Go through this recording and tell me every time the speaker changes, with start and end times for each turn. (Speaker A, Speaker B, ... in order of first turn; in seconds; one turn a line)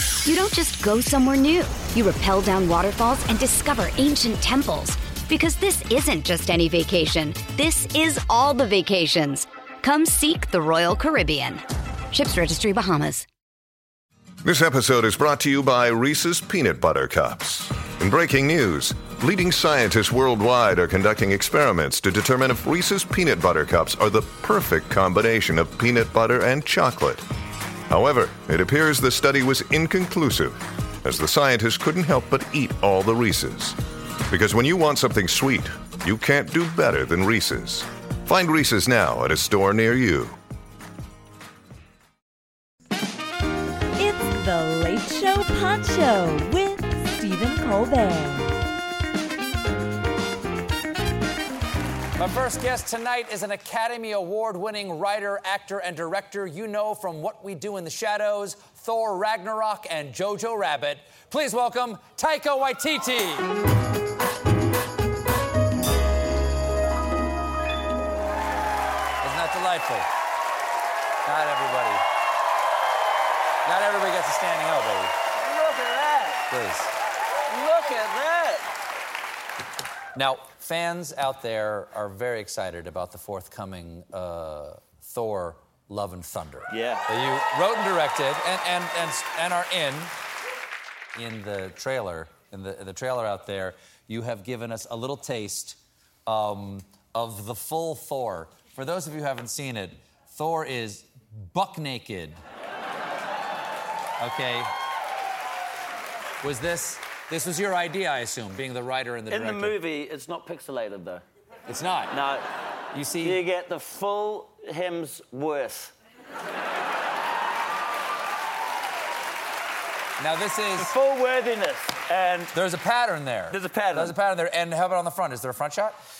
Speaker A: 0.2-13.2
Speaker B: 14.4-27.2
Speaker B: 27.9-33.8
Speaker B: 34.3-40.4
Speaker C: 44.0-48.5
Speaker D: 52.2-63.5
Speaker D: 69.2-70.1
Speaker D: 71.2-72.0
Speaker D: 73.6-75.2
Speaker E: 75.3-76.4
Speaker D: 76.5-76.9
Speaker E: 77.5-78.7
Speaker D: 80.1-90.1
Speaker E: 86.7-87.0
Speaker D: 91.1-102.4
Speaker D: 104.2-104.7
Speaker D: 106.4-109.8
Speaker E: 109.3-111.2
Speaker D: 111.7-112.2
Speaker E: 112.1-112.5
Speaker D: 112.9-113.4
Speaker E: 113.2-115.9
Speaker D: 120.2-120.9
Speaker E: 120.8-122.5
Speaker D: 122.5-126.0
Speaker E: 123.5-124.2